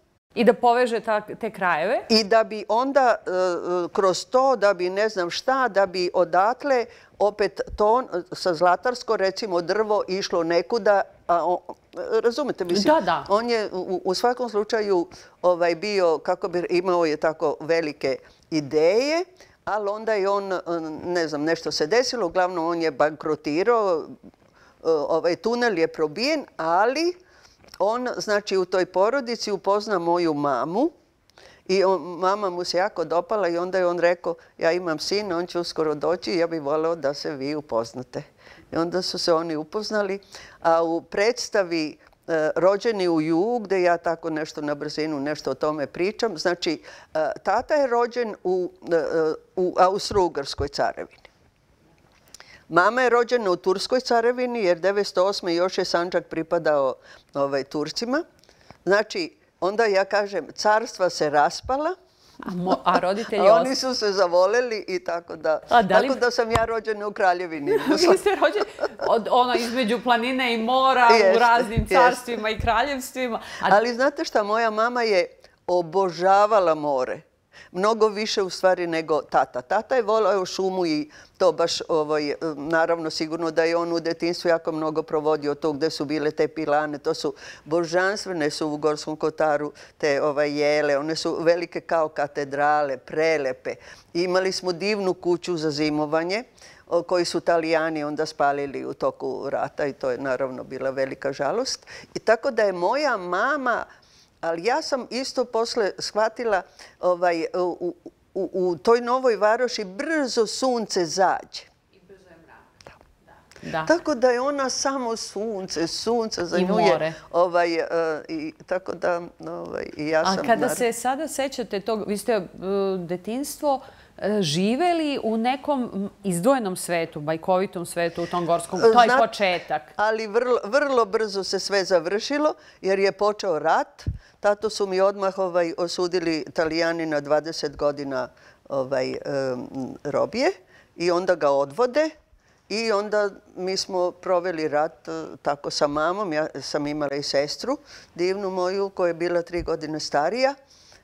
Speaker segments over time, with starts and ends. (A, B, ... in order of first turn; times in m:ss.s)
0:00.3-0:02.1 A
0:02.1-0:24.2 B
0:12.7-0:13.3 A
0:24.8-0:27.2 B
0:27.8-0:30.9 B
0:31.6-0:51.3 B
0:52.7-0:58.2 B
0:58.8-1:02.0 B
1:02.4-1:03.7 A
1:03.2-1:08.2 B
1:05.7-1:06.2 A
1:07.7-1:13.8 A
1:11.1-1:12.3 B
1:13.6-1:43.8 B
1:44.4-1:51.7 B
1:53.6-1:53.9 A
1:53.8-2:00.8 B
1:56.5-1:57.2 A
2:00.2-2:09.9 A
2:08.8-2:09.3 B
2:10.0-2:22.1 B
2:22.7-2:30.5 B